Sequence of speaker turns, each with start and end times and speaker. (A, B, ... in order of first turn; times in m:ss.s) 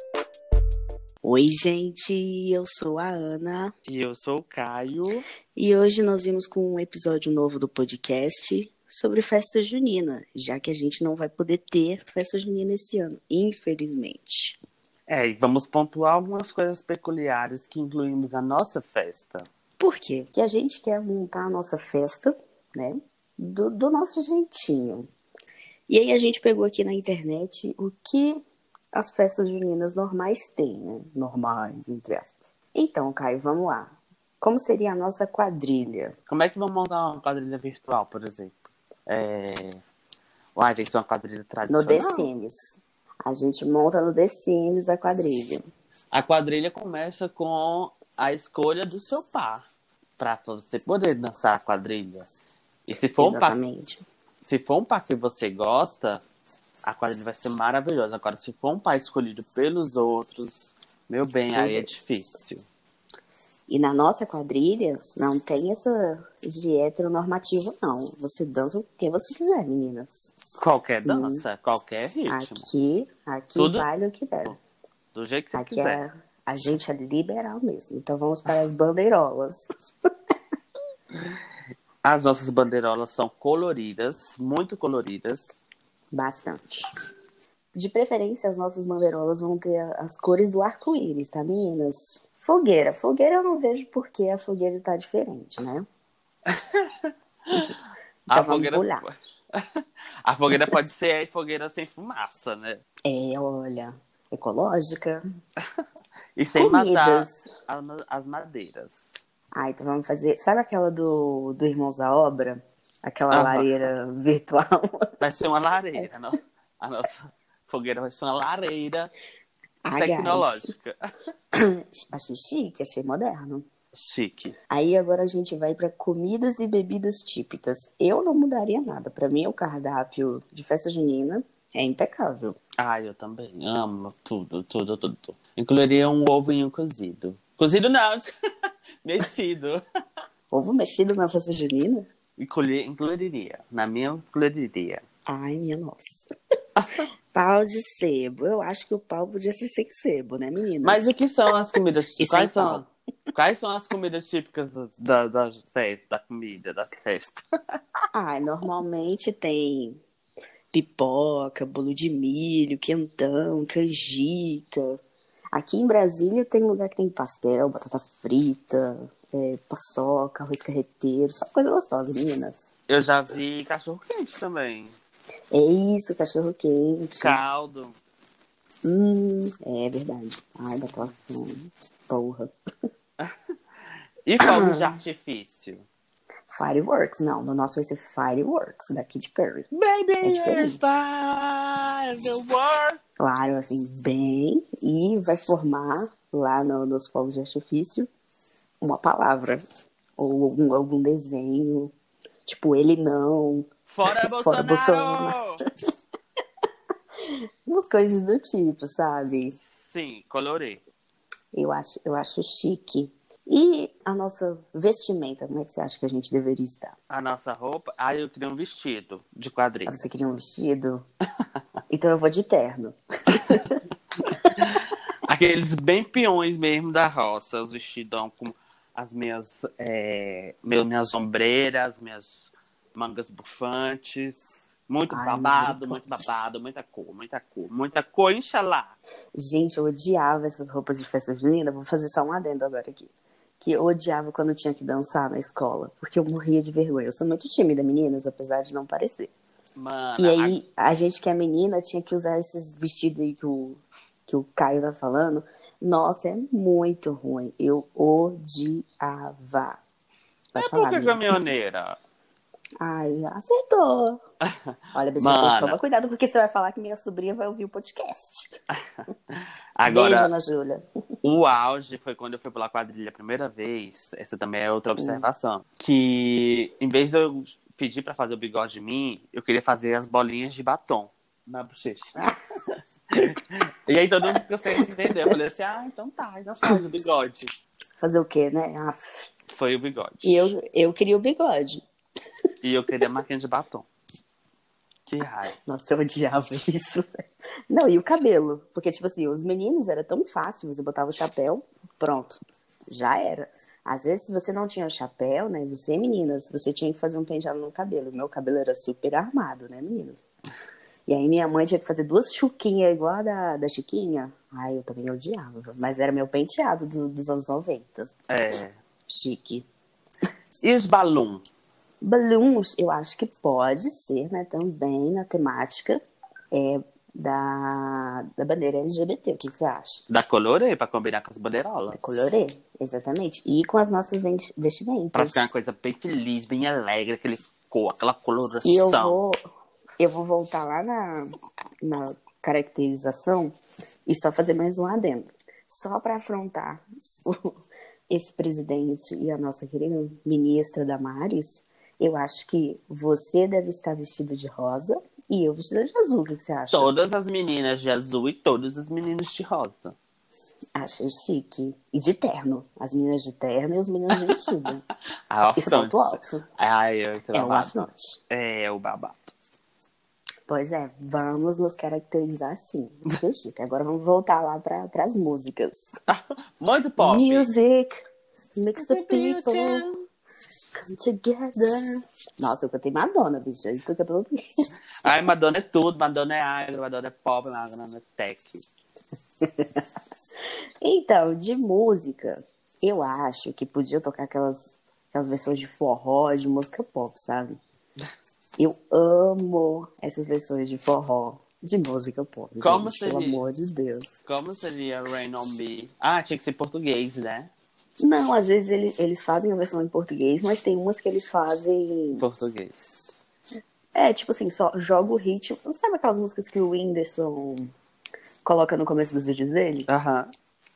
0:01.2-0:03.7 A
0:03.9-0:05.2 B
0:05.5-0:14.6 A
0:15.1-0:19.5 B
0:19.8-0:25.1 A
0:25.9-0:28.4 A
0:28.9-0:36.1 A
0:36.3-0:38.6 B
0:39.1-0:39.8 B
0:40.6-0:42.3 B
0:41.7-0:45.6 A
0:46.1-0:49.7 B
0:50.2-0:52.3 B
0:52.9-0:53.6 B
0:53.2-0:54.0 A
0:54.4-0:56.2 B
0:56.8-1:02.6 B
1:01.5-1:01.9 A
1:03.7-1:10.3 A
1:10.6-1:12.6 B
1:11.0-1:11.4 A
1:12.3-1:14.6 A
1:13.5-1:13.8 B
1:15.1-1:16.0 B
1:15.5-1:19.6 A
1:22.0-1:25.6 B
1:26.1-1:26.9 A
1:27.7-1:35.9 A
1:36.5-1:42.8 B
1:38.3-1:39.0 A
1:43.0-1:45.2 A
1:46.4-1:49.0 B
1:46.6-1:47.5 A
1:49.5-1:55.1 A
1:53.3-1:53.9 B
1:55.2-1:59.1 B
1:59.8-2:00.7 A
2:00.0-2:01.0 B
2:01.6-2:03.6 A
2:03.9-2:04.5 B
2:04.7-2:12.6 A
2:12.8-2:18.3 B
2:19.0-2:19.8 B
2:20.5-2:22.0 A
2:22.4-2:25.0 B
2:25.3-2:26.3 A
2:27.3-2:31.1 A
2:30.8-2:37.4 B
2:32.2-2:32.9 A
2:38.1-2:40.0 A
2:40.7-2:45.0 A
2:45.5-2:52.7 A
2:52.9-2:54.9 B
2:55.5-2:57.4 A
2:57.2-2:58.0 B
2:58.8-3:02.5 A
3:04.2-3:05.8 B
3:04.4-3:05.0 A
3:06.5-3:09.7 A
3:09.7-3:13.0 B
3:10.2-3:10.9 A
3:13.2-3:18.1 A
3:18.8-3:19.6 A
3:20.2-3:21.9 A
3:22.4-3:23.7 A
3:23.9-3:25.6 B
3:24.3-3:25.4 A
3:27.6-3:29.6 A
3:29.6-3:30.8 B
3:31.5-3:37.0 A
3:37.1-3:40.0 B
3:39.8-3:41.0 A
3:41.9-3:43.8 A
3:44.6-3:52.3 B
3:52.9-3:58.9 B
3:55.1-3:56.0 A
3:59.4-4:09.3 A
4:09.8-4:10.6 B
4:10.2-4:19.8 A
4:20.5-4:21.2 A
4:20.6-4:22.0 B
4:22.8-4:24.2 A
4:24.6-4:25.8 B
4:24.9-4:28.5 A
4:29.3-4:30.3 B
4:29.8-4:30.8 A
4:31.2-4:42.3 B
4:35.0-4:35.2 A
4:43.1-4:47.5 B
4:48.0-4:49.3 A
4:49.5-4:50.5 B
4:50.2-4:51.8 A
4:52.6-4:53.9 B
4:55.1-4:55.5 B
4:55.6-5:10.2 A
5:11.1-5:18.3 A
5:18.3-5:18.8 B
5:19.1-5:19.6 A
5:20.6-5:21.4 B
5:22.0-5:26.0 A
5:26.5-5:30.0 A
5:30.1-5:32.2 B
5:31.9-5:35.5 A
5:35.1-5:39.2 B
5:38.6-5:39.4 A
5:40.0-5:41.3 A
5:41.8-5:43.5 A
5:44.1-5:47.5 A
5:48.1-5:56.9 A
5:56.7-6:00.0 B
6:00.8-6:04.8 A
6:05.3-6:07.7 B
6:05.6-6:06.4 A
6:07.3-6:08.2 A
6:08.3-6:09.3 B
6:10.5-6:15.9 A
6:16.1-6:17.5 B
6:17.0-6:18.0 A
6:18.6-6:19.8 A
6:18.8-6:19.9 B
6:20.9-6:24.4 A
6:25.0-6:28.6 B
6:29.4-6:29.8 A
6:30.8-6:37.6 A
6:38.6-6:44.2 A
6:42.6-6:43.4 B
6:44.2-6:47.5 B
6:48.0-6:52.2 A
6:52.2-6:53.2 B
6:53.9-6:57.7 A
6:58.4-6:59.9 A
6:59.9-7:00.3 B